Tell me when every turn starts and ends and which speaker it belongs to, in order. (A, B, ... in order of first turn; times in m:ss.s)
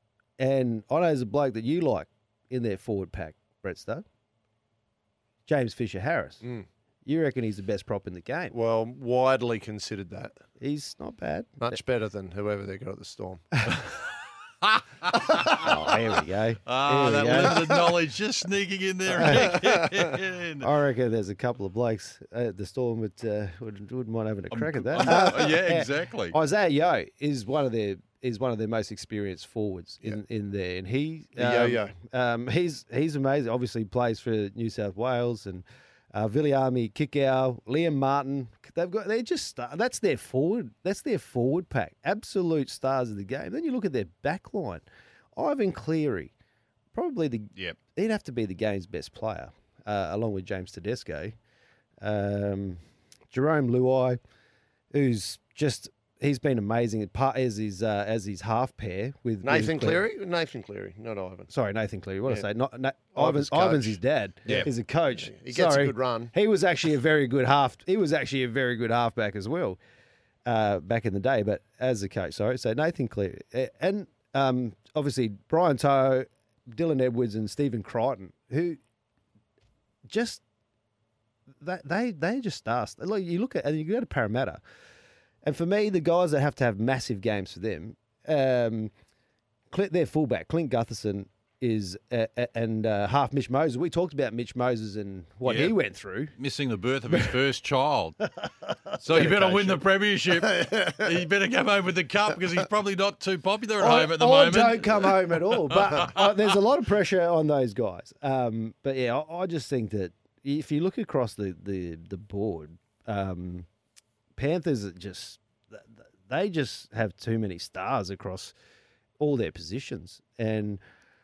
0:00.4-0:04.0 A
0:05.5-0:06.4 A
0:07.0-0:08.5 A
0:08.5-0:10.4 B
0:10.6-0:11.8 A
0:11.6-0:13.9 B
0:14.6-0:15.6 C
0:15.6-0:18.0 A
0:16.7-0:20.7 C
0:19.1-0:19.6 A
0:19.3-0:19.9 B
0:20.6-0:44.8 A
0:24.5-0:26.4 C
0:31.4-0:31.9 B
0:45.4-0:46.3 A
0:46.9-0:51.3 A
0:52.0-0:52.8 A
0:53.3-0:54.2 A
0:54.9-1:00.0 A
0:59.4-1:01.5 B
1:01.5-1:09.8 A
1:03.2-1:06.3 B
1:10.4-1:18.8 A
1:20.1-1:20.4 A
1:21.6-1:24.6 A
1:25.4-1:28.9 A
1:29.7-1:36.3 A
1:35.4-1:35.8 C
1:36.3-1:38.3 C
1:39.0-1:46.3 C
1:39.1-1:39.8 A
1:43.8-1:53.7 A
1:54.4-1:58.5 A
1:59.2-2:00.8 A